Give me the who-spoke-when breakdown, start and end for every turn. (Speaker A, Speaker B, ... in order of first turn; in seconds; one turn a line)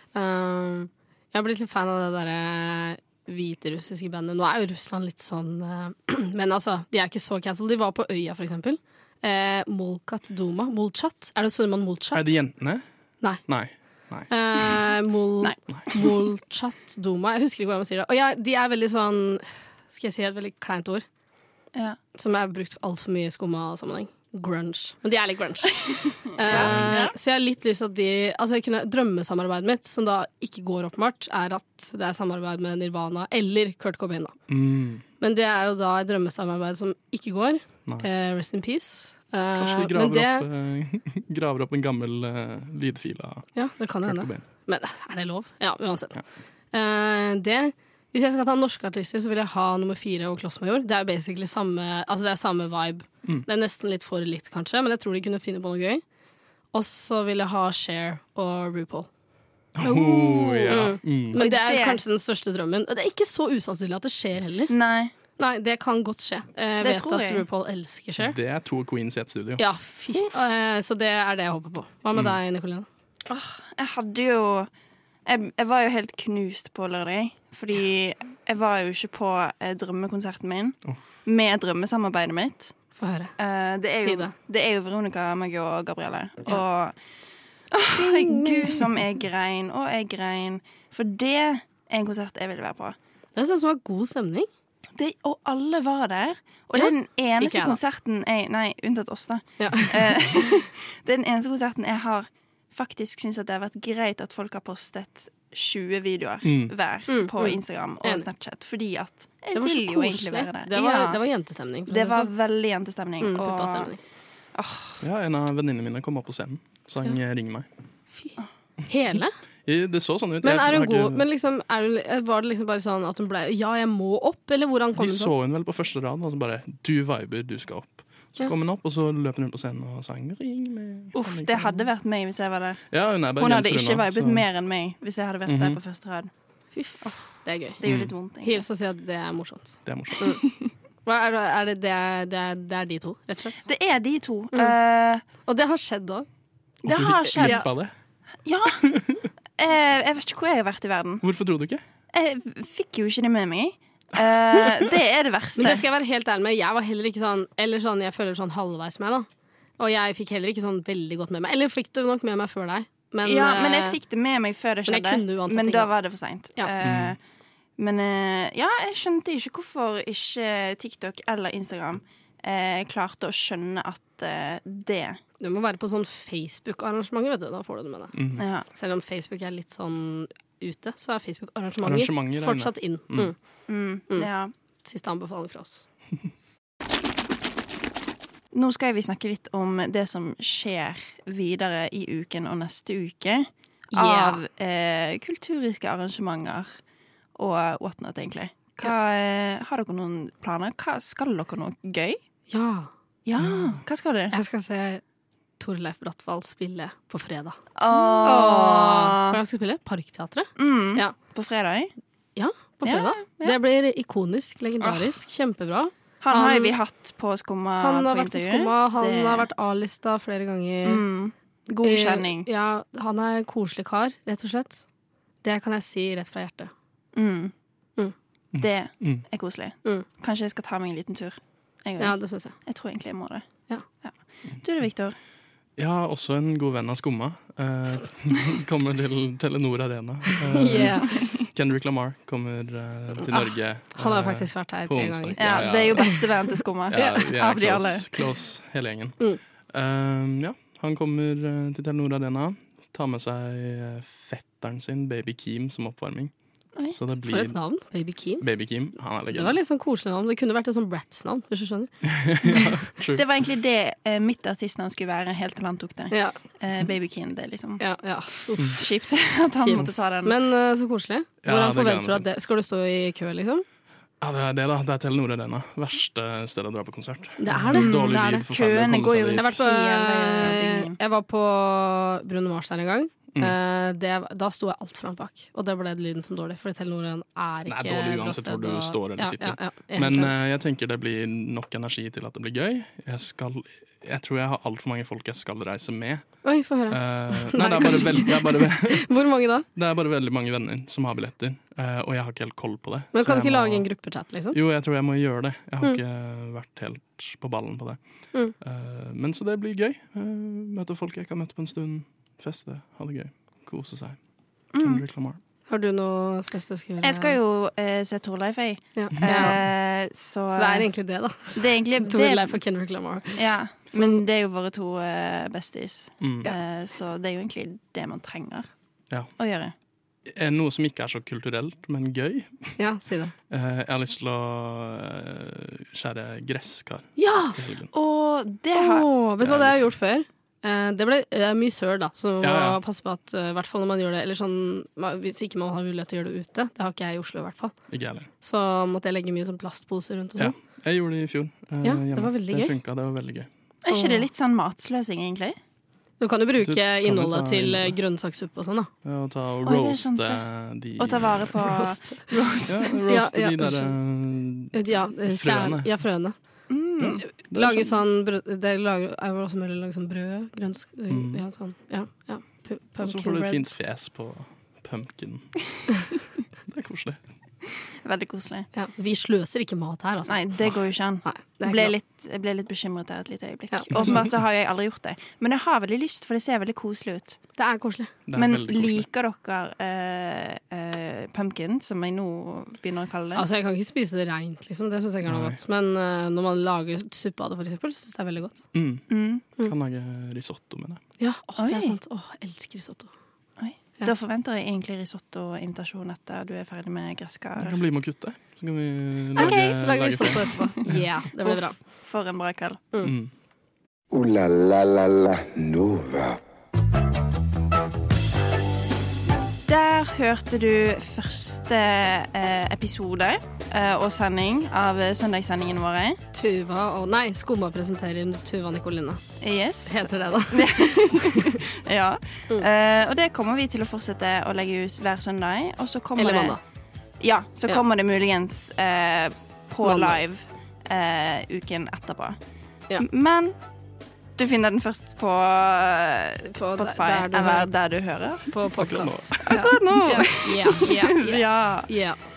Speaker A: 0.1-12.4
Speaker B: 12.1-12.8
Speaker B: 13.4-14.3
Speaker A: 14.3-21.0
Speaker C: 15.4-16.1
Speaker A: 22.1-25.8
Speaker A: 26.3-34.3
Speaker C: 26.4-27.1
Speaker B: 26.5-27.1
Speaker B: 34.5-35.0
Speaker A: 35.2-40.5
Speaker B: 39.5-43.5
Speaker A: 43.5-46.2
Speaker B: 44.0-44.4
Speaker A: 46.7-56.0
Speaker A: 56.7-59.1
Speaker B: 59.7-61.4
Speaker C: 59.8-62.0
Speaker A: 60.7-64.7
Speaker C: 64.7-65.1
Speaker A: 65.4-68.3
Speaker C: 66.8-67.5
Speaker B: 68.2-69.6
Speaker A: 69.6-72.9
Speaker C: 73.3-74.7
Speaker C: 75.2-82.7
Speaker A: 83.0-83.3
Speaker C: 83.4-86.9
Speaker A: 84.0-84.3
Speaker C: 87.7-93.0
Speaker A: 87.9-88.9
Speaker A: 93.3-94.5
Speaker C: 95.0-111.2
Speaker A: 96.8-97.8
Speaker A: 99.6-100.1
Speaker B: 106.4-106.7
Speaker A: 107.1-108.2
Speaker A: 109.5-112.3
Speaker C: 111.9-113.9
Speaker A: 113.2-114.0
Speaker C: 114.5-115.0
Speaker B: 115.0-117.7
Speaker A: 118.9-119.3
Speaker B: 119.7-121.2
Speaker A: 120.4-125.3
Speaker B: 124.9-131.8
Speaker C: 131.1-136.3
Speaker B: 132.9-134.4
Speaker B: 135.4-135.8
Speaker A: 136.7-137.8
Speaker C: 137.0-138.6
Speaker B: 137.8-138.1
Speaker A: 138.4-140.4
Speaker B: 139.8-140.2
Speaker C: 140.4-140.7
Speaker A: 141.0-143.6
Speaker C: 143.6-145.2
Speaker A: 145.4-146.2
Speaker B: 146.8-147.9
Speaker C: 146.8-147.7
Speaker A: 147.4-147.7
Speaker C: 148.4-148.9
Speaker B: 148.6-149.3
Speaker C: 149.6-151.2
Speaker B: 151.2-151.8
Speaker C: 152.1-155.8
Speaker A: 155.6-159.3
Speaker A: 159.8-164.0
Speaker C: 163.2-167.2
Speaker A: 164.9-165.9
Speaker B: 166.8-167.2
Speaker C: 167.8-175.2
Speaker A: 175.4-178.1
Speaker B: 178.1-178.4
Speaker C: 178.4-178.7
Speaker A: 178.7-183.3
Speaker B: 181.8-183.3
Speaker C: 183.7-184.5
Speaker A: 184.8-185.8
Speaker C: 188.5-196.7
Speaker A: 193.9-194.4
Speaker C: 197.3-202.2
Speaker A: 202.5-202.9
Speaker C: 203.2-204.3
Speaker B: 203.4-203.7
Speaker A: 204.3-205.0
Speaker A: 205.6-207.6
Speaker C: 207.8-209.4
Speaker A: 208.2-211.1
Speaker C: 210.6-211.9
Speaker A: 212.3-216.7
Speaker C: 212.8-213.6
Speaker C: 214.8-215.2
Speaker C: 216.2-219.5
Speaker A: 217.8-221.0
Speaker C: 220.8-222.5
Speaker A: 221.8-224.8
Speaker A: 225.4-226.7
Speaker C: 227.1-227.5
Speaker B: 228.5-229.2
Speaker C: 228.6-233.4
Speaker A: 232.0-232.5
Speaker C: 234.0-235.2
Speaker B: 235.8-246.2
Speaker A: 240.5-241.2
Speaker C: 241.0-241.5
Speaker A: 243.9-247.2
Speaker C: 245.4-248.1
Speaker B: 246.9-249.2
Speaker B: 249.7-256.3
Speaker B: 256.9-257.6
Speaker A: 257.2-258.4
Speaker B: 258.4-259.6
Speaker A: 259.3-261.9
Speaker B: 262.0-263.2
Speaker C: 263.1-267.8
Speaker A: 266.1-266.4
Speaker A: 267.8-268.9
Speaker C: 268.7-270.4
Speaker A: 269.6-273.6
Speaker B: 271.4-272.2
Speaker B: 274.2-279.6
Speaker A: 277.4-278.4
Speaker C: 277.7-281.0
Speaker A: 279.3-290.3
Speaker B: 287.6-296.2
Speaker A: 296.4-299.6
Speaker B: 296.9-299.1
Speaker B: 299.7-303.9
Speaker A: 303.1-304.6
Speaker B: 304.5-308.0
Speaker B: 308.6-314.2
Speaker C: 314.7-315.0
Speaker B: 314.8-315.4
Speaker A: 315.7-317.4
Speaker C: 317.0-320.9
Speaker A: 318.9-319.6
Speaker B: 319.1-319.6
Speaker A: 320.5-323.4
Speaker C: 321.5-322.6
Speaker C: 323.4-328.7
Speaker B: 326.2-326.5
Speaker C: 329.4-329.7
Speaker B: 330.2-332.8
Speaker A: 332.8-333.3
Speaker B: 333.5-337.9
Speaker A: 337.2-337.6
Speaker C: 337.9-339.1
Speaker A: 338.7-347.8
Speaker B: 339.4-339.8
Speaker B: 342.4-342.8
Speaker B: 347.9-348.3
Speaker A: 348.4-350.5
Speaker B: 350.4-353.5
Speaker A: 351.8-352.8
Speaker C: 353.8-355.6
Speaker A: 353.9-354.2
Speaker A: 356.2-358.9
Speaker B: 356.6-358.0
Speaker B: 359.0-361.7
Speaker C: 359.6-360.4
Speaker C: 361.0-362.9
Speaker A: 361.7-362.3
Speaker B: 362.6-365.9
Speaker A: 363.1-363.9
Speaker A: 364.7-366.3
Speaker C: 366.7-367.3
Speaker B: 367.0-367.9
Speaker A: 367.2-373.7
Speaker B: 371.1-371.4
Speaker B: 373.0-375.6
Speaker B: 376.7-377.2
Speaker C: 378.0-378.7
Speaker A: 378.7-380.4
Speaker C: 380.3-387.4
Speaker A: 381.2-381.9
Speaker A: 383.7-384.0
Speaker A: 387.6-388.1
Speaker B: 388.3-389.1
Speaker C: 388.3-393.4
Speaker A: 393.4-398.6
Speaker B: 395.2-395.6
Speaker B: 398.7-399.1
Speaker C: 399.1-399.4
Speaker B: 399.6-401.0
Speaker A: 401.2-403.1
Speaker C: 401.6-401.9
Speaker C: 403.6-407.8
Speaker B: 407.6-411.0
Speaker A: 409.3-411.8
Speaker C: 411.4-412.8
Speaker B: 413.0-413.3
Speaker D: 414.1-416.4
Speaker C: 419.7-426.2
Speaker A: 426.3-429.2
Speaker C: 429.4-436.6
Speaker A: 429.9-431.6
Speaker A: 436.2-436.6
Speaker C: 437.2-442.4
Speaker A: 439.8-440.2
Speaker C: 443.0-443.5
Speaker C: 444.4-448.5
Speaker A: 446.5-447.7
Speaker A: 448.5-452.2
Speaker B: 448.6-449.7
Speaker C: 449.4-451.9